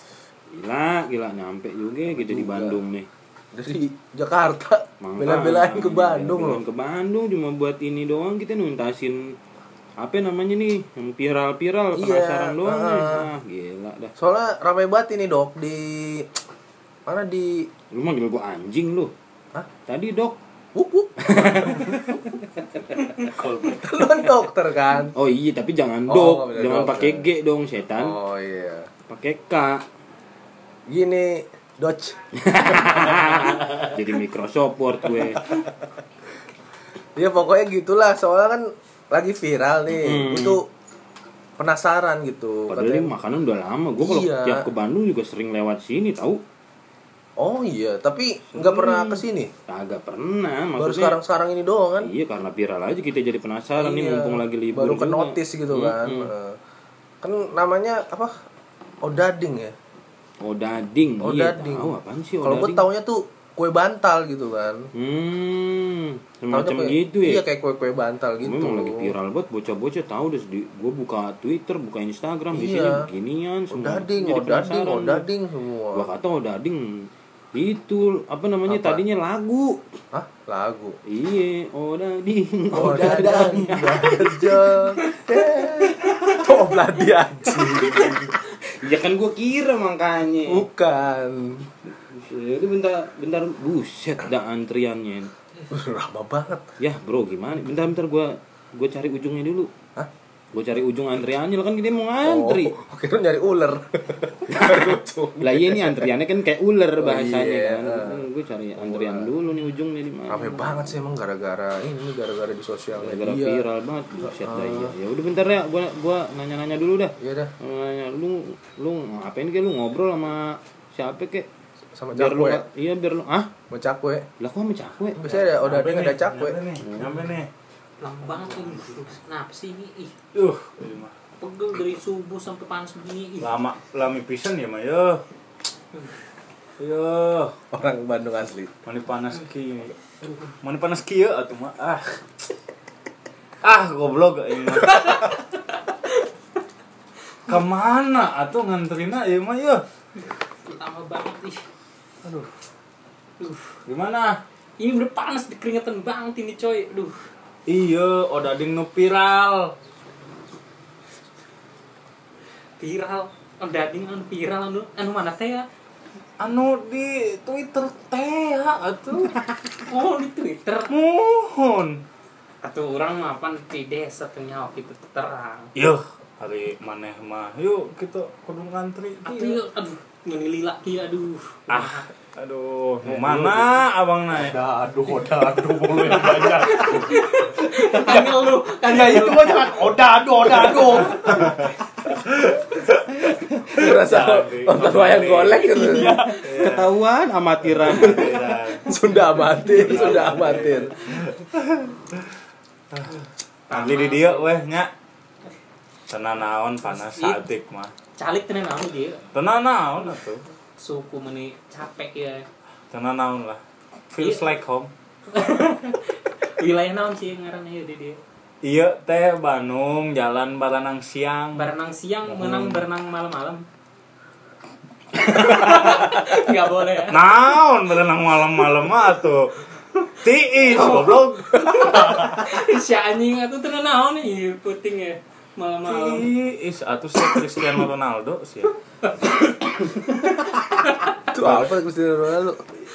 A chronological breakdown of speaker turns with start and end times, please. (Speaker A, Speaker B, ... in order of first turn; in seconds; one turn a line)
Speaker A: 0.5-3.1
Speaker B: 2.1-2.8
Speaker B: 3.5-6.6
Speaker A: 5.0-9.3
Speaker A: 10.0-14.1
Speaker B: 12.0-13.3
Speaker B: 14.2-16.3
Speaker B: 17.1-17.7
Speaker A: 17.9-19.1
Speaker A: 19.9-20.4
Speaker B: 20.8-22.2
Speaker A: 21.2-22.6
Speaker C: 23.3-24.0
Speaker B: 23.6-25.1
Speaker A: 25.0-28.2
Speaker B: 26.1-27.3
Speaker B: 27.9-28.9
Speaker A: 29.1-29.8
Speaker B: 30.9-32.2
Speaker A: 32.4-35.6
Speaker B: 32.7-33.7
Speaker B: 37.2-40.6
Speaker A: 39.9-40.6
Speaker B: 41.6-43.1
Speaker A: 42.7-46.4
Speaker B: 44.0-44.6
Speaker B: 47.4-49.5
Speaker A: 48.5-51.2
Speaker B: 50.8-52.1
Speaker A: 52.0-56.3
Speaker B: 53.8-56.6
Speaker B: 57.2-58.3
Speaker B: 59.0-59.8
Speaker A: 60.4-62.9
Speaker B: 61.2-64.9
Speaker A: 64.9-67.5
Speaker B: 66.5-69.1
Speaker A: 68.4-75.3
Speaker B: 72.5-73.1
Speaker B: 73.7-76.1
Speaker A: 75.9-79.8
Speaker B: 78.7-79.0
Speaker B: 80.1-81.0
Speaker A: 81.1-85.9
Speaker B: 82.7-88.4
Speaker A: 87.9-90.7
Speaker B: 90.5-91.7
Speaker A: 92.1-95.3
Speaker B: 95.7-96.7
Speaker A: 96.8-99.7
Speaker A: 100.5-102.7
Speaker B: 102.2-106.1
Speaker A: 104.5-111.0
Speaker B: 107.0-108.2
Speaker B: 108.8-109.3
Speaker B: 110.3-113.7
Speaker A: 113.0-121.5
Speaker B: 114.2-114.9
Speaker B: 117.2-117.5
Speaker B: 122.0-122.6
Speaker A: 122.1-123.5
Speaker B: 123.7-124.3
Speaker A: 124.4-125.6
Speaker B: 125.2-126.6
Speaker D: 125.5-127.5
Speaker A: 126.8-127.1
Speaker E: 128.0-130.1
Speaker D: 130.3-131.1
Speaker E: 131.4-133.5
Speaker D: 133.4-135.2
Speaker D: 136.8-137.6
Speaker B: 137.7-138.7
Speaker D: 138.9-140.0
Speaker D: 140.6-142.2
Speaker D: 143.6-145.2
Speaker E: 144.8-145.4
Speaker D: 147.5-149.8
Speaker E: 150.7-151.6
Speaker D: 152.2-152.5
Speaker E: 153.4-153.8
Speaker D: 153.9-154.4
Speaker E: 154.8-157.2
Speaker D: 157.7-159.7
Speaker E: 162.8-165.7
Speaker D: 166.4-169.4
Speaker E: 169.9-170.9
Speaker D: 170.9-172.0
Speaker E: 172.6-175.7
Speaker D: 175.8-179.6
Speaker E: 179.2-182.1
Speaker D: 181.7-184.6
Speaker C: 183.1-183.5
Speaker C: 184.4-191.6
Speaker E: 186.6-189.8
Speaker B: 190.5-191.1
Speaker D: 191.2-191.7
Speaker D: 192.4-192.8
Speaker B: 193.6-196.2
Speaker D: 194.0-195.8
Speaker C: 195.7-196.4
Speaker D: 196.4-196.9
Speaker A: 196.6-198.3
Speaker D: 197.6-198.9
Speaker B: 197.8-200.9
Speaker D: 199.6-202.3
Speaker E: 203.7-204.5
Speaker D: 203.7-204.9
Speaker D: 206.1-207.9
Speaker E: 207.0-207.4
Speaker E: 208.2-209.2
Speaker D: 209.3-210.4
Speaker E: 210.8-212.4
Speaker D: 212.9-214.9
Speaker E: 215.3-218.2
Speaker D: 218.6-221.7
Speaker E: 221.6-223.6
Speaker D: 222.2-222.8
Speaker E: 225.2-227.2
Speaker D: 227.1-229.6
Speaker D: 230.2-232.4
Speaker E: 230.7-236.3
Speaker D: 235.9-238.7
Speaker E: 239.0-241.2
Speaker B: 241.3-242.6
Speaker D: 241.4-241.7